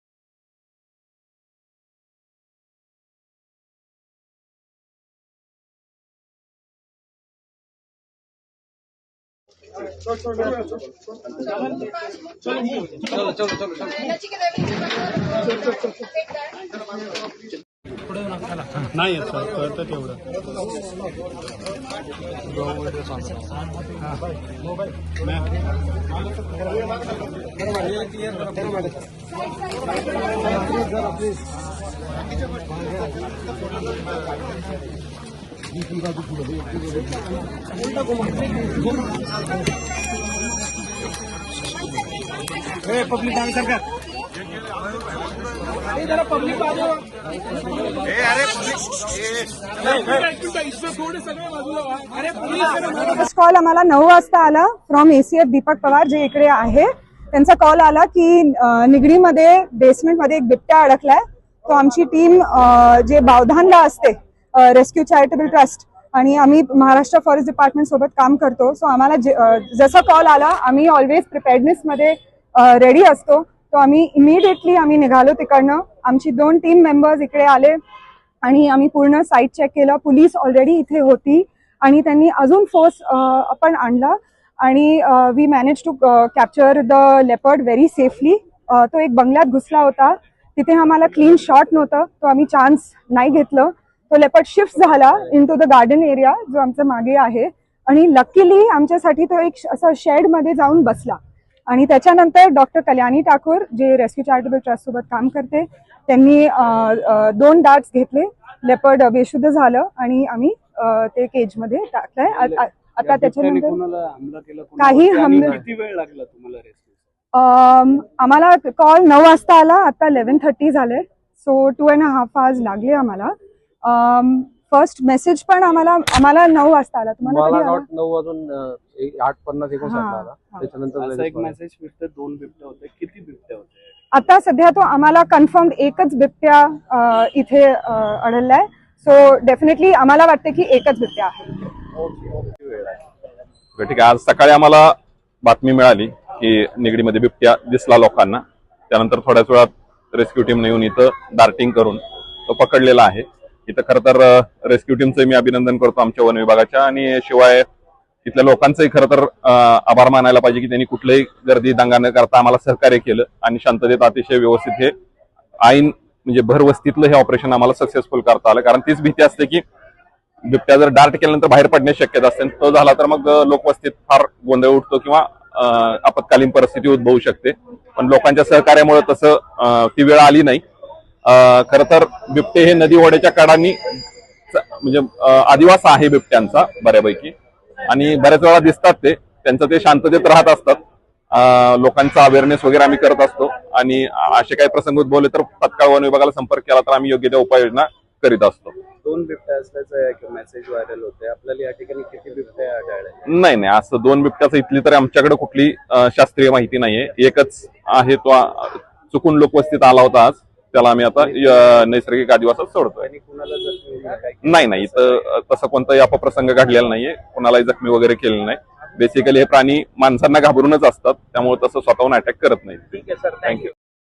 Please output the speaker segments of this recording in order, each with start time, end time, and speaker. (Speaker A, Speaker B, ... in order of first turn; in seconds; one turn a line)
Speaker A: 52.8-77.8
Speaker A: 78.4-113.8
Speaker B: 112.3-117.0
Speaker A: 114.8-115.6
Speaker A: 117.3-123.3
Speaker A: 123.8-127.8
Speaker C: 127.2-131.5
Speaker A: 129.8-130.6
Speaker B: 131.0-133.9
Speaker A: 134.1-141.6
Speaker B: 142.0-143.0
Speaker D: 143.8-157.7
Speaker D: 158.2-164.9
Speaker D: 165.6-169.6
Speaker D: 170.5-180.6
Speaker D: 181.2-183.8
Speaker D: 184.5-187.3
Speaker D: 187.9-190.8
Speaker D: 191.3-198.8
Speaker B: 199.0-203.3
Speaker D: 203.3-213.1
Speaker B: 211.2-211.8
Speaker B: 213.0-215.2
Speaker D: 214.4-223.7
Speaker B: 223.0-223.6